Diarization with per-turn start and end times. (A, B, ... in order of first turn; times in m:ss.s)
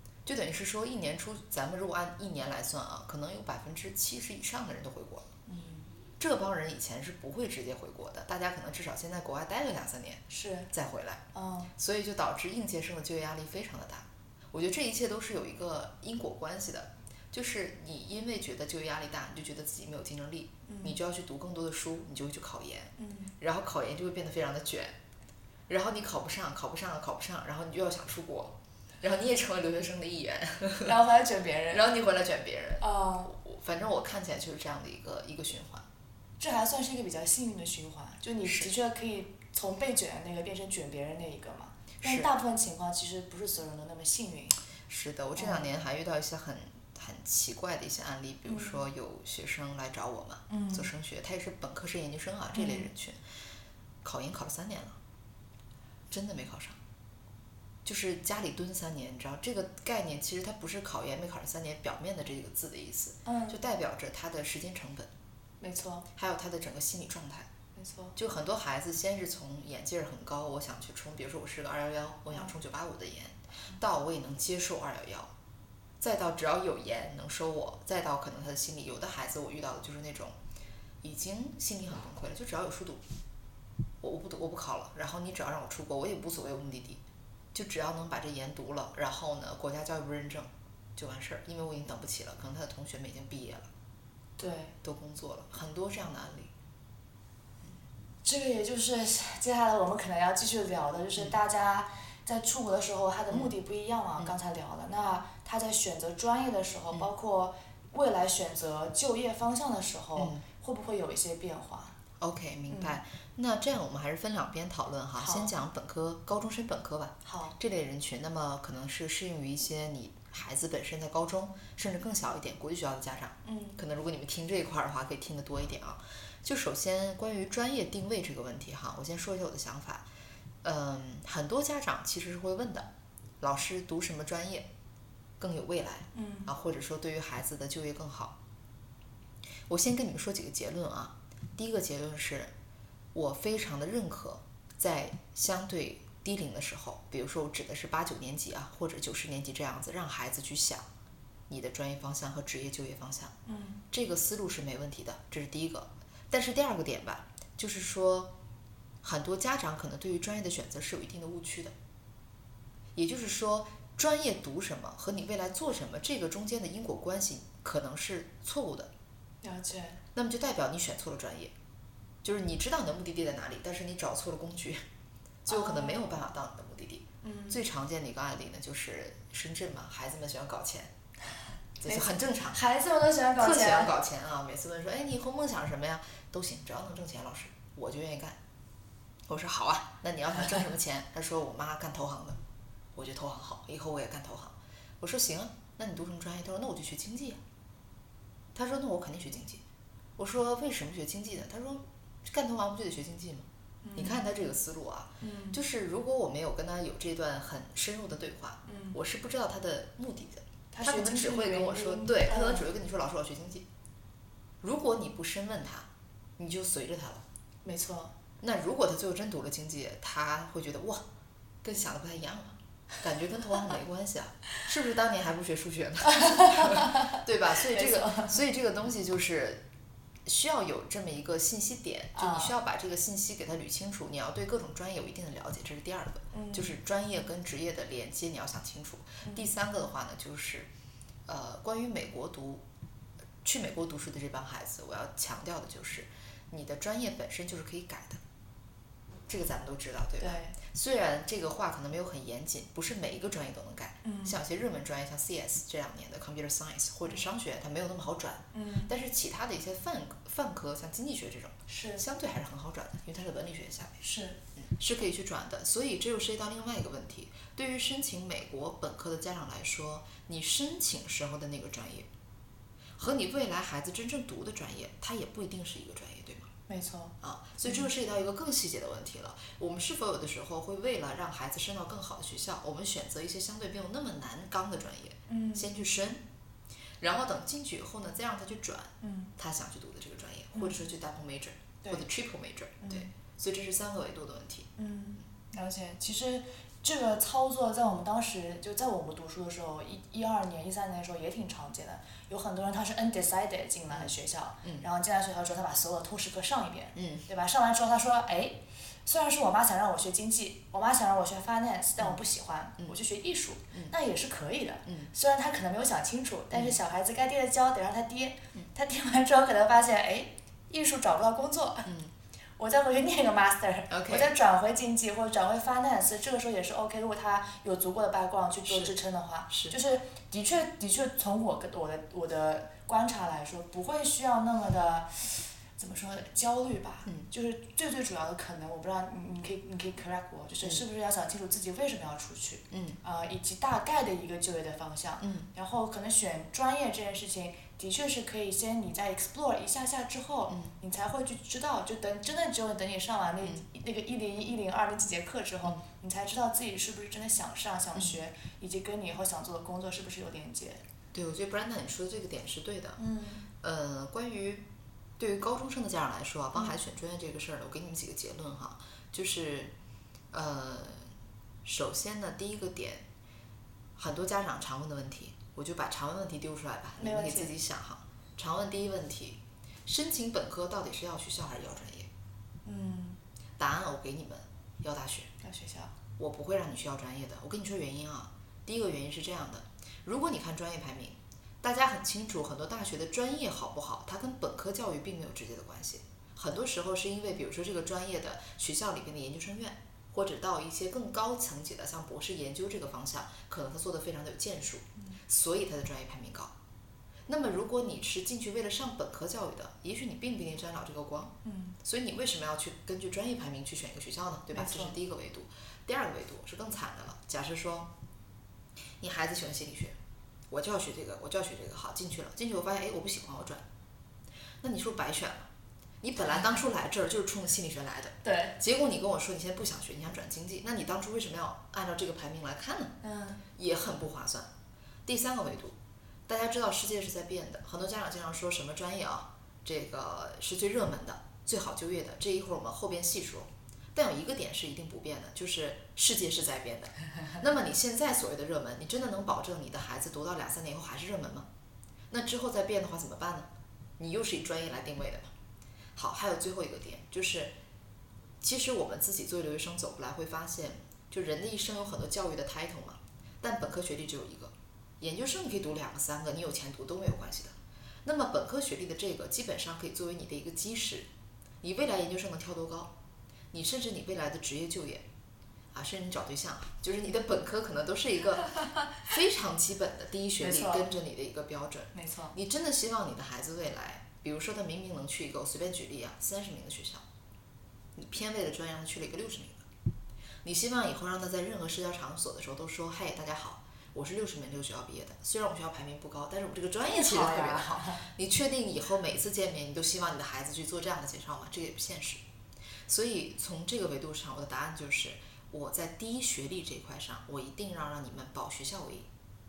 0:00.3-0:05.3 A
0:05.5-0:05.9 B
0:06.2-0:11.2 A
0:10.3-0:10.7 B
0:11.3-0:11.7 B
0:11.8-0:25.0 A
0:20.7-0:21.0 B
0:23.0-0:23.3 B
0:25.7-0:31.0 A
0:30.8-0:31.9 B
0:31.7-0:35.9 A
0:32.8-0:33.3 B
0:36.4-0:44.6 B
0:42.0-0:42.3 A
0:44.9-0:53.2 A
0:45.4-0:45.7 B
0:48.5-0:48.8 B
0:50.5-0:50.9 B
0:52.6-0:52.9 B
0:54.0-0:55.0 A
0:56.1-0:56.8 A
0:57.8-1:05.1 A
1:03.3-1:03.6 B
1:05.6-1:06.1 B
1:06.2-1:07.5 A
1:07.8-1:08.2 B
1:08.2-1:15.3 A
1:16.0-1:20.4 A
1:21.0-1:23.0 A
1:24.0-1:27.0 A
1:27.5-1:33.7 A
1:34.4-1:34.8 B
1:34.8-1:36.5 A
1:38.2-1:52.0 B
1:50.2-1:50.4 A
1:52.2-2:10.1 A
1:52.7-1:53.0 B
1:55.2-1:55.5 B
1:57.3-1:57.6 B
2:03.4-2:03.8 B
2:10.6-2:12.9 A
2:13.4-2:14.7 A
2:15.4-2:18.4 A
2:16.1-2:16.5 B
2:19.7-2:22.5 A
2:23.1-2:30.9 A
2:31.5-2:33.3 A
2:33.5-2:33.8 B
2:33.9-2:38.3 A
2:39.0-2:41.7 A
2:43.0-2:48.9 A
2:49.4-2:50.0 B
2:50.2-2:51.5 A
2:52.2-2:54.8 A
2:55.4-3:00.9 A
2:55.5-2:56.1 B
2:57.2-2:57.6 B
3:01.8-3:02.6 A
3:01.9-3:04.0 B
3:03.4-3:08.4 A
3:09.3-3:12.4 A
3:13.0-3:17.4 A
3:18.6-3:19.6 A
3:20.2-3:33.7 A
3:23.8-3:24.2 B
3:25.2-3:25.6 B
3:28.7-3:29.0 B
3:30.7-3:32.7 B
3:34.6-3:37.2 A
3:37.6-3:38.1 B
3:38.4-3:41.0 A
3:41.6-3:49.6 A
3:46.1-3:48.4 B
3:50.3-4:00.7 A
3:52.2-3:52.5 B
3:56.3-3:56.8 B
3:59.2-3:59.5 B
4:01.3-4:02.6 A
4:03.4-4:08.2 A
4:09.3-4:24.0 A
4:10.2-4:10.6 B
4:14.0-4:14.4 B
4:18.5-4:18.9 B
4:21.7-4:22.0 B
4:24.0-4:24.4 B
4:24.6-4:32.1 A
4:33.0-4:36.5 A
4:36.7-4:37.1 B
4:37.2-4:46.2 A
4:45.3-4:45.7 B
4:47.0-4:54.7 A
4:49.0-4:49.3 B
4:52.8-4:53.1 B
4:54.8-5:21.9 B
5:07.0-5:07.3 A
5:21.9-5:22.1 A
5:22.6-6:00.8 B
5:23.9-5:24.3 A
5:42.7-5:43.0 A
5:45.2-5:45.5 A
6:01.1-6:03.0 A
6:03.0-6:03.5 B
6:03.5-6:04.6 A
6:05.2-6:09.7 A
6:10.3-6:11.1 A
6:11.6-6:13.0 A
6:14.0-6:22.1 A
6:17.0-6:17.5 B
6:22.6-6:23.2 B
6:23.6-6:25.3 A
6:25.4-6:25.9 B
6:26.2-6:46.5 A
6:47.3-6:57.9 A
6:51.4-6:51.8 B
6:54.5-6:55.0 B
6:59.0-7:00.0 A
7:00.5-7:03.6 A
7:04.6-7:05.5 A
7:06.0-7:12.9 A
7:06.2-7:06.6 B
7:08.2-7:08.6 B
7:13.0-7:13.4 B
7:13.5-7:14.5 A
7:15.1-7:15.8 A
7:16.3-7:31.5 A
7:32.1-7:35.3 A
7:36.0-7:37.5 A
7:38.4-7:51.1 A
7:51.6-7:52.9 A
7:53.5-7:55.0 A
7:55.7-8:07.0 A
8:00.4-8:00.9 B
8:01.9-8:02.3 B
8:08.0-8:09.7 A
8:10.4-8:22.2 A
8:16.8-8:18.0 B
8:22.9-8:29.1 A